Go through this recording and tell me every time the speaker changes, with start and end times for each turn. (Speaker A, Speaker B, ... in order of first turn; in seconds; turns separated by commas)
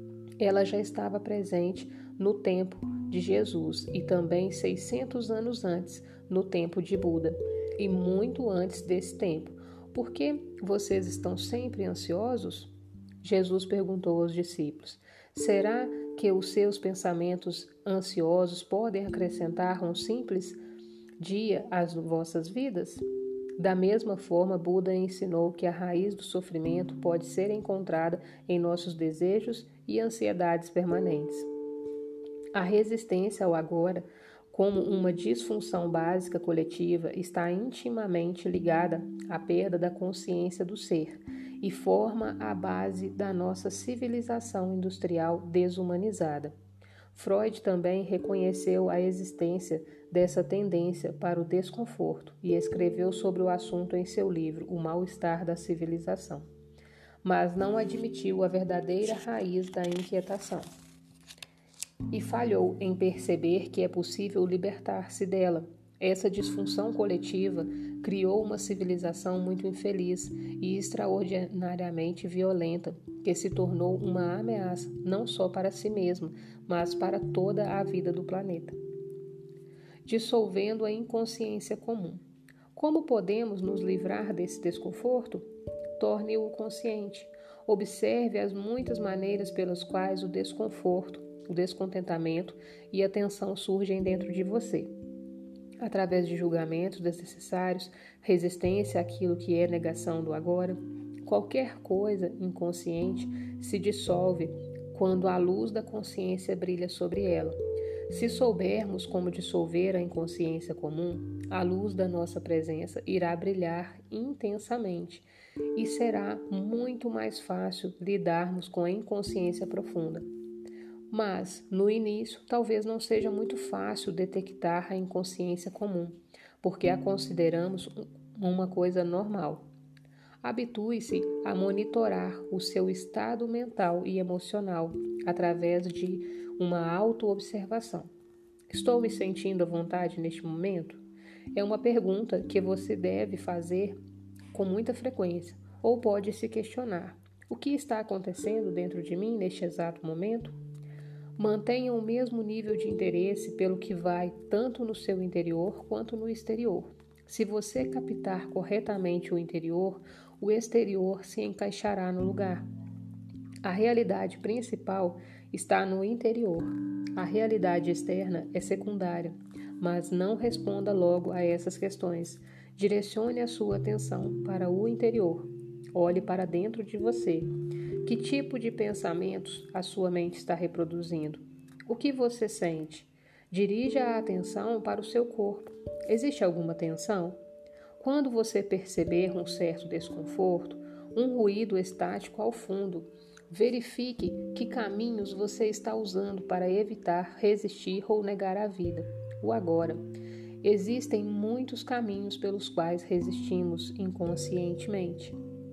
Speaker A: 0.4-20.6, Speaker A: 21.2-23.0, Speaker A: 23.6-31.5, Speaker A: 32.5-46.5, Speaker A: 47.1-56.5, Speaker A: 57.2-60.7, Speaker A: 62.1-78.8, Speaker A: 80.0-82.2, Speaker A: 82.7-85.4, Speaker A: 86.0-94.9, Speaker A: 95.8-107.6, Speaker A: 108.1-120.2, Speaker A: 121.1-129.7, Speaker A: 130.4-138.1, Speaker A: 138.7-141.0, Speaker A: 141.5-144.0, Speaker A: 144.5-150.5, Speaker A: 151.4-162.7, Speaker A: 163.6-177.5, Speaker A: 178.0-187.4, Speaker A: 188.0-200.0, Speaker A: 200.6-205.3